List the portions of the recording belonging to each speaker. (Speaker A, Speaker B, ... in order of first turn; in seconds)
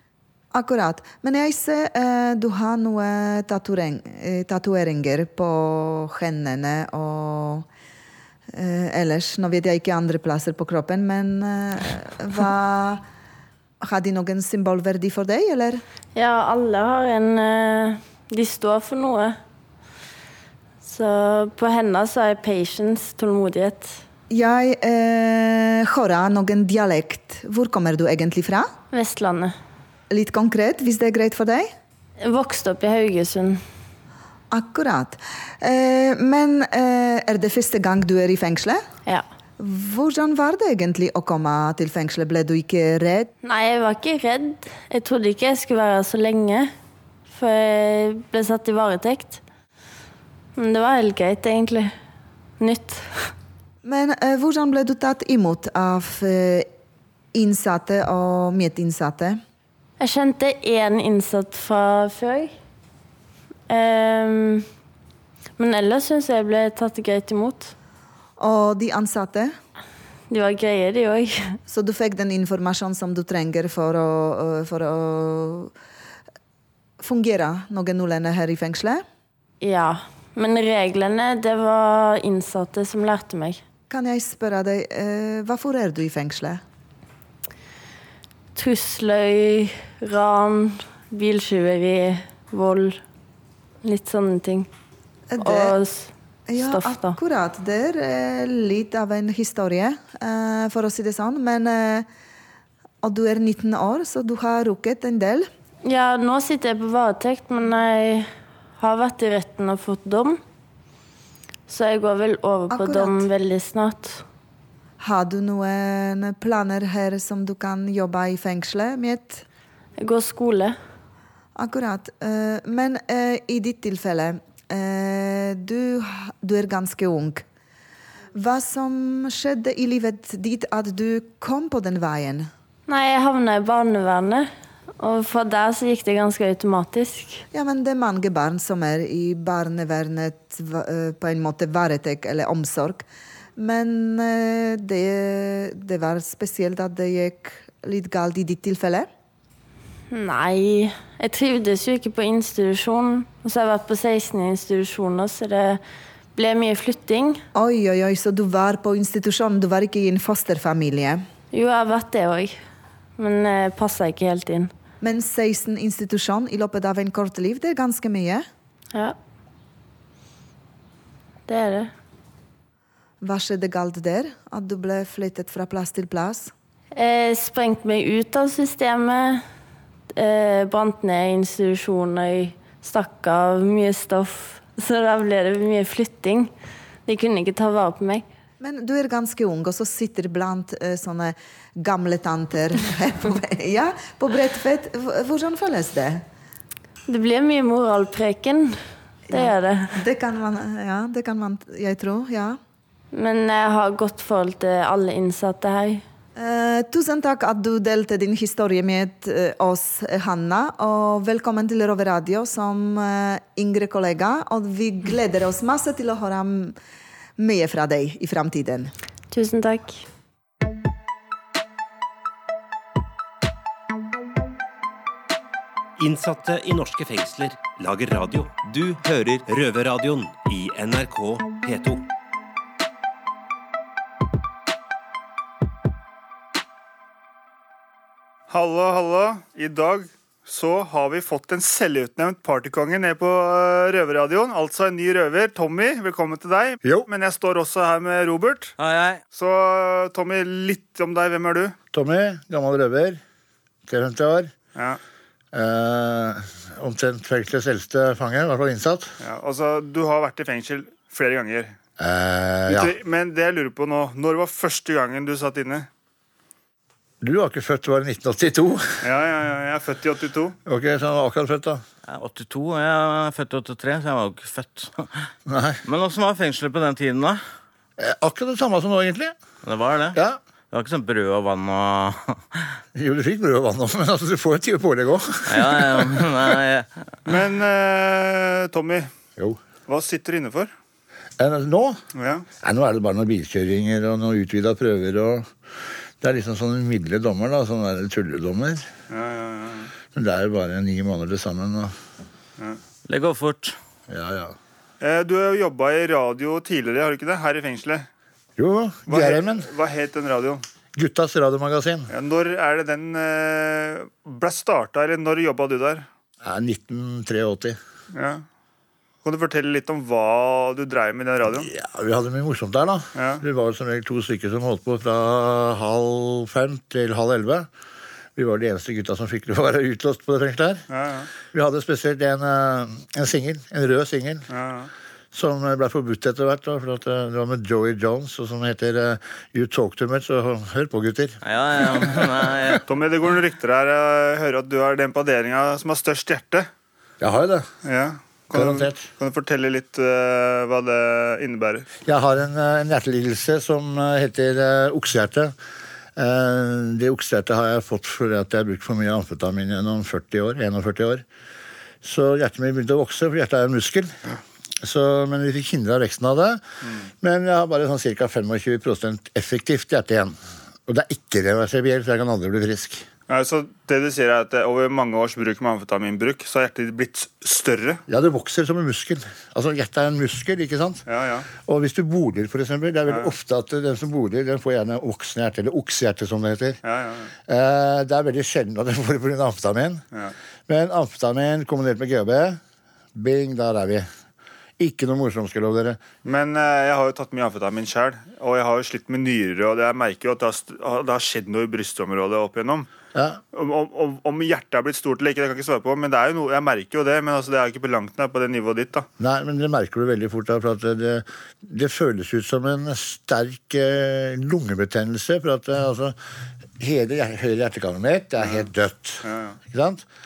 Speaker A: 0.5-7.7, 8.5-13.0, 13.8-15.8, 24.3-28.7, 30.1-31.7, 34.5-38.8, 39.6-43.3, 53.9-56.7, 57.4-59.4, 68.4-69.5, 71.7-75.7, 77.0-79.0, 83.9-86.6, 95.3-95.7, 96.5-102.1, 103.0-105.5, 112.7-113.2, 115.0-119.4, 121.6-127.4, 128.3-132.5, 137.5-143.1, 143.6-149.1, 157.6-161.2, 165.0-168.4, 173.2-176.5, 188.6-196.2, 199.3-202.6, 206.4-216.8, 217.4-218.9
Speaker B: 16.1-19.4, 20.8-24.0, 28.9-29.6, 32.2-33.6, 43.4-46.7, 47.3-49.4, 50.6-51.9, 52.6-53.3, 60.0-62.5, 63.7-64.7, 65.6-67.7, 70.3-71.6, 79.6-83.6, 88.5-93.0, 93.8-94.7, 95.4-97.2, 105.8-110.4, 111.7-114.2, 120.0-120.8, 132.9-134.5, 135.0-137.4, 150.1-155.8, 156.3-157.4, 161.5-162.6, 163.2-164.7, 171.5-171.9, 176.9-179.4, 180.1-186.5, 187.1-188.2, 197.1-198.8, 199.3-200.0, 203.1-206.0, 219.3-220.0
Speaker C: 226.0-232.1
Speaker D: 238.5-248.7, 249.3-251.8, 259.2-261.7, 262.7-265.9, 269.0-270.6, 287.3-289.1, 289.9-290.7, 292.1-292.4, 299.1-299.9, 305.0-308.1, 309.1-310.6, 312.1-316.1, 318.1-318.4, 319.2-321.7, 323.1-323.4, 330.9-331.3, 334.5-334.9, 342.9-346.7, 347.8-351.9, 373.3-378.0, 381.1-381.5, 386.8-387.3, 396.2-402.9, 403.5-409.1, 419.2-419.6
Speaker E: 248.8-249.2, 272.1-275.1, 275.9-277.4, 279.6-280.2, 280.7-282.6, 285.5-286.9, 303.1-303.8, 341.4-342.8
Speaker F: 251.9-253.2, 253.9-254.5, 255.5-259.1, 262.0-262.9, 267.2-269.0, 270.6-271.8, 275.5-275.8, 278.0-279.4, 280.1-280.4, 282.9-286.6, 291.4-292.0, 292.6-295.5, 296.2-298.9, 300.1-301.9, 304.1-304.6, 308.6-309.7, 310.9-312.1, 316.4-317.8, 321.5-327.7, 328.4-330.9, 331.5-334.5, 335.3-342.7, 347.2-347.7, 348.5-349.1, 352.1-355.5, 356.2-361.2, 362.0-364.2, 364.8-366.6, 367.2-370.4, 370.9-373.1, 378.1-386.8, 387.5-390.0, 390.7-392.6, 393.1-394.1, 394.8-396.0, 403.1-403.4, 409.2-416.2, 416.8-420.1